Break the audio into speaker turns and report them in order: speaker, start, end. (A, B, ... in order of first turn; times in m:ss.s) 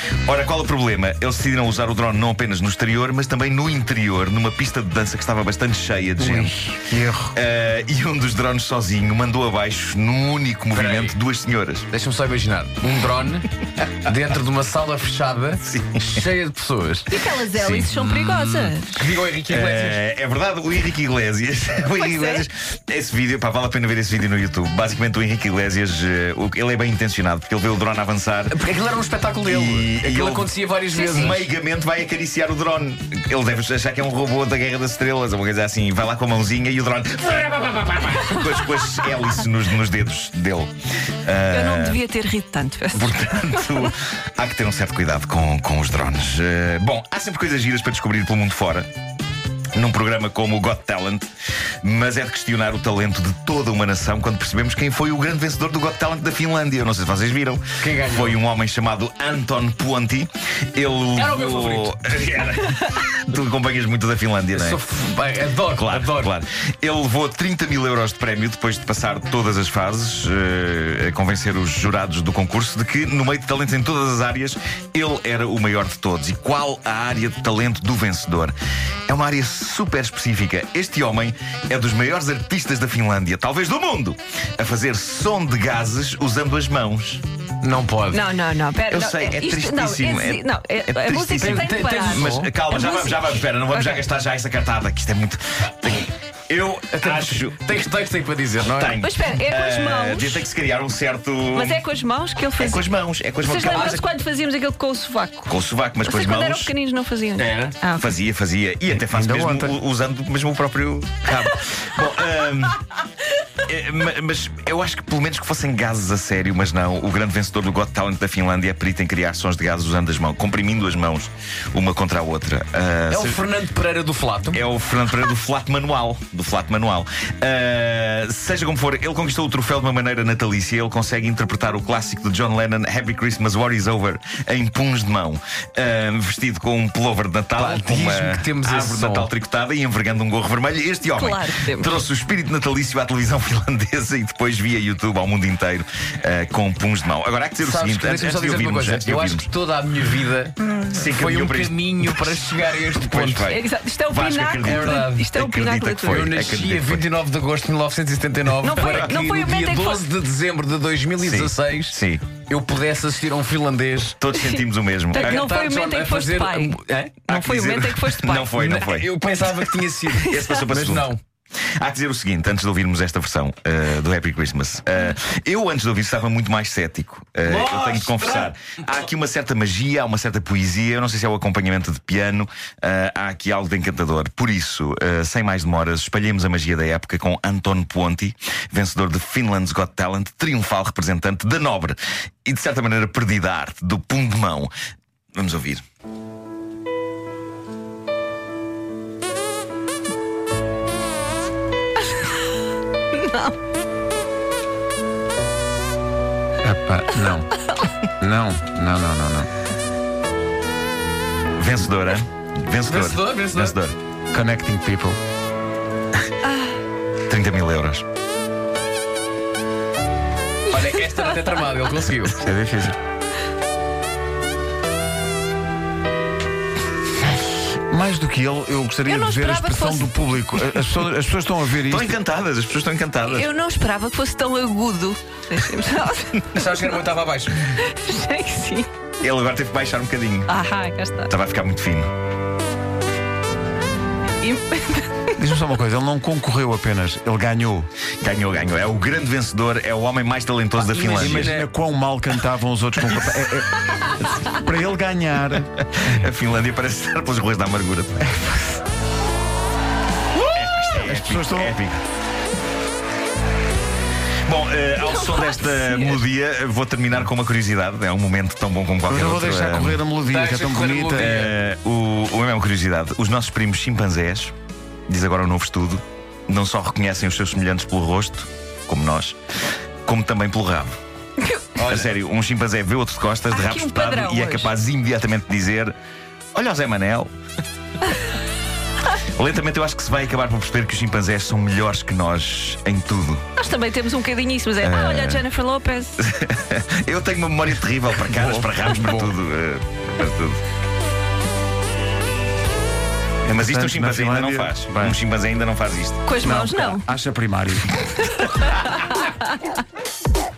0:00.3-0:06.6 A
0:06.2-0:07.3 B
0:07.3-0:11.9 A
0:10.7-0:11.2 C
0:11.9-0:20.0 C
0:15.6-0:16.2 A
0:17.1-0:19.0 D
0:17.6-0:17.9 A
0:19.5-0:28.6 A
0:21.9-0:22.5 D
0:28.5-0:31.5 C
0:29.5-0:40.7 A
0:41.2-0:42.0 A
0:41.5-0:43.9 D
0:42.9-0:48.9 A
0:49.8-0:51.3 A
0:51.8-1:04.8 A
0:57.8-0:58.4 C
1:01.2-1:01.9 C
1:04.5-1:06.3 C
1:05.8-1:18.5 A
1:19.1-1:27.2 A
1:27.6-1:28.3 C
1:28.1-1:34.1 D
1:28.9-1:37.6 A
1:31.4-1:32.5 C
1:36.9-1:39.0 C
1:38.6-1:41.8 A
1:39.0-1:40.5 D
1:41.5-1:42.9 D
1:42.6-1:44.1 A
1:43.4-1:45.5 D
1:45.5-1:46.7 A
1:46.0-1:48.1 D
1:47.4-1:47.8 C
1:48.0-1:52.8 A
1:49.0-1:49.8 B
1:53.7-2:03.4 A
2:03.1-2:04.6 C
2:04.5-2:29.5 A
2:17.6-2:19.3 C
2:21.2-2:21.9 D
2:27.6-2:33.5 C
2:30.9-2:37.1 A
2:33.4-2:36.3 D
2:34.6-2:35.3 C
2:36.0-2:44.2 C
2:38.6-2:40.1 D
2:38.9-2:39.1 A
2:41.2-2:42.3 A
2:44.2-2:45.5 A
2:44.3-2:48.8 D
2:45.1-2:47.2 C
2:47.3-2:49.1 A
2:48.5-2:51.2 C
2:50.2-2:50.5 D
2:50.3-2:51.1 A
2:51.8-3:14.7 A
2:57.4-2:58.5 C
3:15.4-3:15.8 A
3:23.1-3:23.5 D
3:26.6-3:27.5 B
3:28.2-3:29.5 B
3:31.6-3:34.0 A
3:32.8-3:33.8 C
3:34.3-3:35.2 B
3:36.4-3:36.8 D
3:37.3-3:38.0 A
3:40.7-3:42.5 C
3:42.4-3:43.0 B
3:47.9-3:52.2 B
3:49.0-3:50.1 D
3:51.8-3:53.5 A
3:53.2-3:56.4 D
3:56.5-3:57.7 C
3:57.8-3:58.9 D
3:59.2-4:00.5 A
4:00.5-4:01.3 D
4:01.3-4:02.1 A
4:04.4-4:05.3 D
4:05.4-4:07.9 B
4:08.2-4:11.5 A
4:10.8-4:11.7 C
4:11.2-4:13.7 B
4:14.5-4:15.7 B
4:15.8-4:18.2 A
4:18.2-4:18.7 B
4:20.5-4:22.0 A
4:21.0-4:21.7 B
4:24.5-4:30.0 A
4:25.0-4:26.3 D
4:29.1-4:31.4 B
4:30.2-4:31.6 C
4:31.2-4:34.5 A
4:35.1-4:39.4 A
4:40.1-4:41.0 A
4:41.8-4:42.1 C
4:41.9-4:46.0 A
4:43.5-4:44.7 D
4:46.6-4:47.3 A
4:49.4-4:53.5 A
4:53.6-4:56.2 D
4:54.8-4:55.5 A
4:56.2-5:00.6 A
4:58.3-4:59.3 B
5:03.4-5:05.2 B
5:03.5-5:06.2 A
5:06.2-5:07.1 D
5:06.4-5:07.9 B